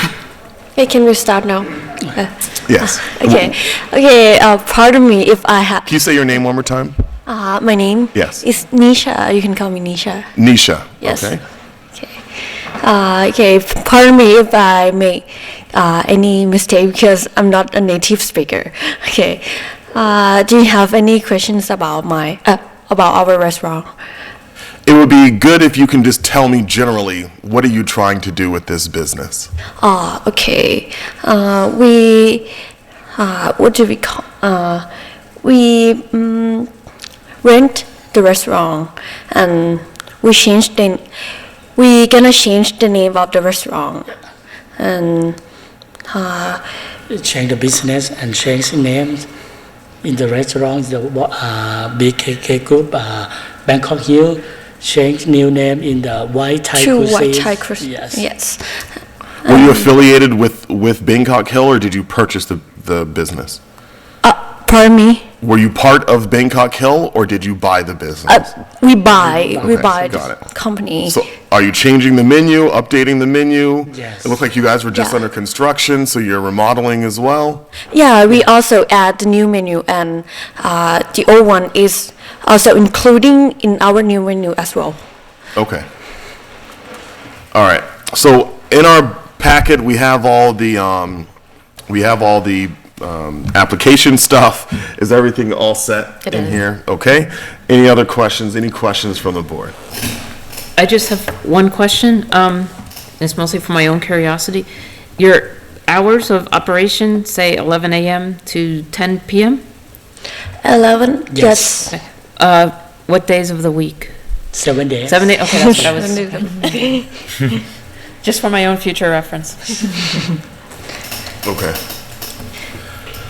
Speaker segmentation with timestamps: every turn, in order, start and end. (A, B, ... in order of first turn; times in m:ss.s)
0:00.8-0:05.9 A
0:02.7-0:03.5 B
0:05.9-0:07.0 B
0:07.3-0:10.3 A
0:08.2-0:08.4 B
0:10.4-0:11.4 B
0:11.0-0:11.4 A
0:12.0-0:12.2 A
0:12.8-0:23.9 A
0:24.9-0:29.5 B
0:29.8-0:32.5 A
0:33.2-0:34.9 A
0:35.4-0:36.7 A
0:37.4-0:41.0 A
0:41.8-0:44.1 A
0:44.8-0:45.4 A
0:46.1-0:46.6 A
0:47.1-0:49.3 C
0:50.0-0:58.2 C
0:56.8-0:58.8 A
0:59.4-0:59.8 A
0:59.5-1:03.6 B
1:04.2-1:05.3 A
1:05.4-1:08.5 B
1:08.3-1:11.2 A
1:09.2-1:09.8 C
1:09.5-1:10.4 B
1:11.1-1:17.7 B
1:13.9-1:14.3 C
1:14.9-1:15.2 A
1:17.9-1:25.0 A
1:25.6-1:25.9 B
1:27.5-1:31.3 B
1:31.9-1:39.8 B
1:40.8-1:44.7 D
1:45.2-1:49.6 D
1:50.6-1:51.9 A
1:51.3-1:51.9 C
1:51.9-1:54.1 D
1:54.5-1:56.0 C
1:55.1-1:56.8 D
1:55.5-1:57.1 A
1:58.2-2:00.2 D
2:01.4-2:01.8 B